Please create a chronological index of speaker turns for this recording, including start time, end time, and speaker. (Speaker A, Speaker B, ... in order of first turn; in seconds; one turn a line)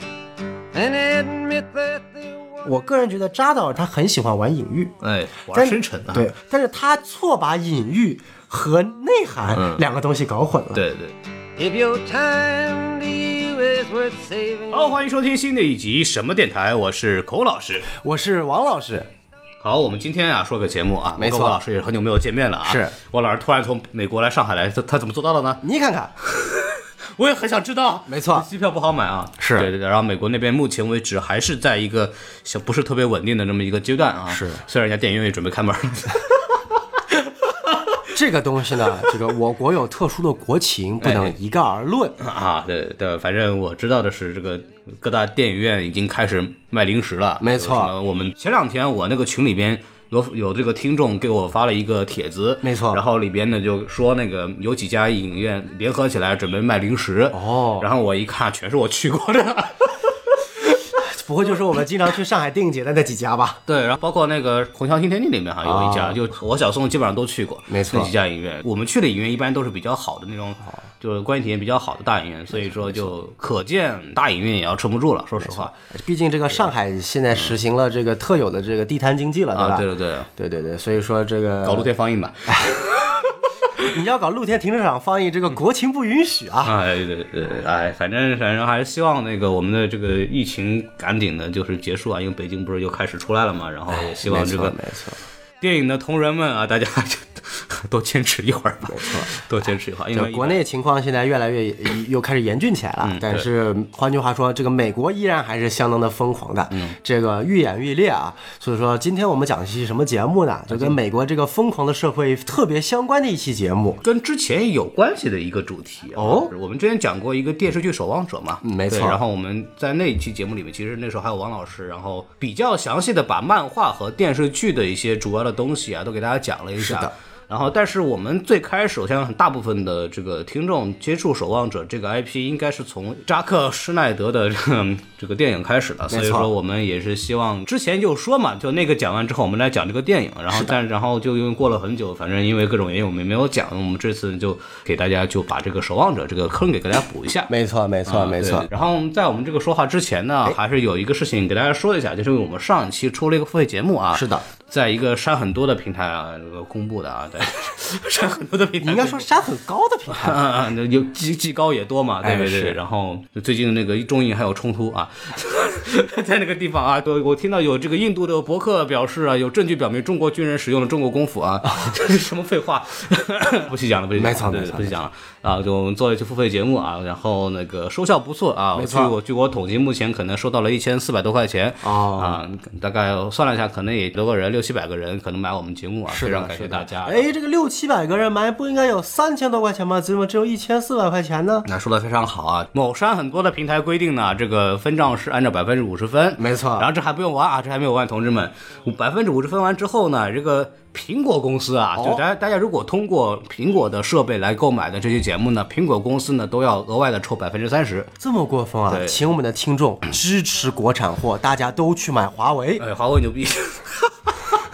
Speaker A: 0.7-2.7
Speaker B: 2.6-4.9
Speaker C: 5.0-6.3
Speaker B: 5.5-10.8
Speaker C: 9.6-9.8
Speaker C: 10.7-11.1
Speaker A: 11.6-15.0
Speaker C: 14.7-17.9
Speaker B: 17.9-19.1
Speaker C: 19.6-25.6
Speaker B: 21.1-21.6
Speaker B: 22.6-22.9
Speaker B: 25.6-26.1
Speaker C: 26.2-36.5
Speaker B: 28.1-28.5
Speaker B: 29.4-29.7
Speaker B: 34.3-34.6
Speaker C: 37.5-37.9
Speaker B: 38.1-42.2
Speaker C: 41.0-41.3
Speaker C: 42.2-60.0
Speaker B: 47.4-47.9
Speaker B: 52.6-53.0
Speaker B: 57.3-57.9
Speaker B: 60.9-63.6
Speaker C: 63.7-75.7
Speaker B: 65.6-66.2
Speaker B: 67.7-68.1
Speaker B: 72.5-73.1
Speaker B: 75.4-81.9
Speaker C: 79.5-80.3
Speaker C: 81.6-83.1
Speaker B: 82.5-82.8
Speaker B: 83.8-86.7
Speaker C: 86.6-94.8
Speaker B: 93.9-95.2
Speaker C: 95.6-100.6
Speaker B: 98.9-99.3
Speaker B: 100.1-114.0
Speaker C: 103.0-103.4
Speaker C: 110.7-111.0
Speaker C: 114.0-147.5
Speaker B: 116.2-116.5
Speaker B: 118.6-119.2
Speaker B: 126.8-127.1
Speaker B: 136.1-136.5
Speaker B: 147.5-148.7
Speaker C: 148.1-159.3
Speaker B: 154.1-154.4
Speaker B: 158.8-160.4
Speaker C: 160.1-187.3
Speaker B: 162.2-162.8
Speaker B: 174.2-175.0
Speaker B: 178.7-179.1
Speaker B: 181.8-182.4
Speaker B: 186.1-191.7
Speaker C: 191.7-208.1
Speaker B: 196.4-196.9
Speaker B: 208.2-212.8
Speaker C: 208.9-209.2
Speaker C: 212.8-214.5